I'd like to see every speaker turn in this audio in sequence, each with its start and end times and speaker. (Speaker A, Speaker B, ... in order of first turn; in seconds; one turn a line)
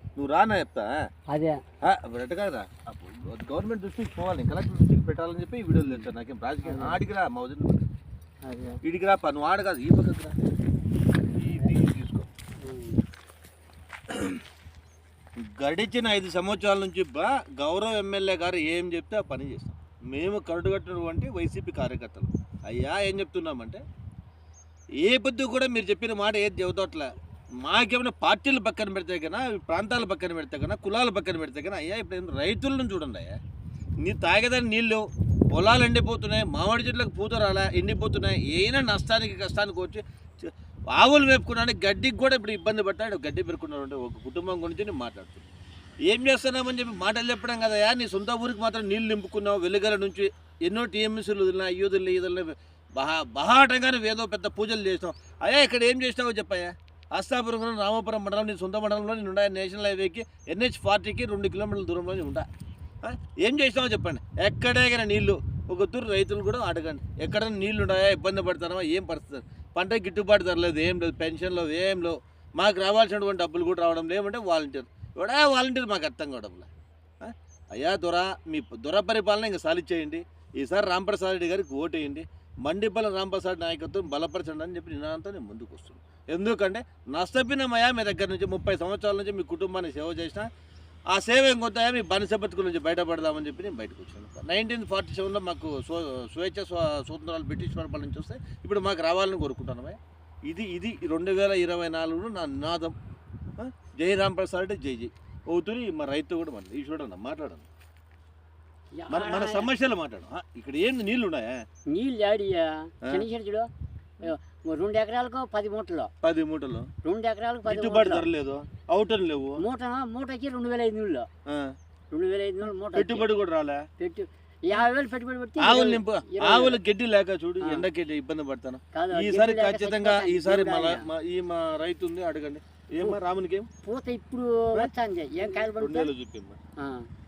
Speaker A: 0.1-1.1
Speaker B: 1.3-1.6
Speaker A: 1.8-7.8
Speaker B: 5.8-6.1
Speaker B: 6.6-7.0
Speaker B: 8.4-8.8
Speaker A: 8.8-10.4
Speaker A: 11.3-12.3
Speaker B: 12.6-13.0
Speaker A: 14.1-14.4
Speaker A: 15.6-23.8
Speaker A: 25.0-33.4
Speaker A: 34.0-45.5
Speaker A: 46.1-62.5
Speaker A: 63.0-76.7
Speaker A: 77.2-90.5
Speaker A: 91.1-103.0
Speaker A: 103.6-107.7
Speaker B: 108.9-109.7
Speaker A: 109.1-111.6
Speaker B: 111.9-113.7
Speaker B: 114.2-116.1
Speaker A: 116.2-116.9
Speaker B: 117.0-118.3
Speaker A: 117.6-119.6
Speaker B: 119.6-121.3
Speaker A: 121.5-121.8
Speaker B: 122.1-123.3
Speaker A: 122.9-123.8
Speaker B: 124.0-126.8
Speaker A: 125.6-133.7
Speaker B: 127.6-127.9
Speaker B: 128.9-131.1
Speaker B: 133.8-136.1
Speaker A: 135.8-136.6
Speaker B: 136.8-137.1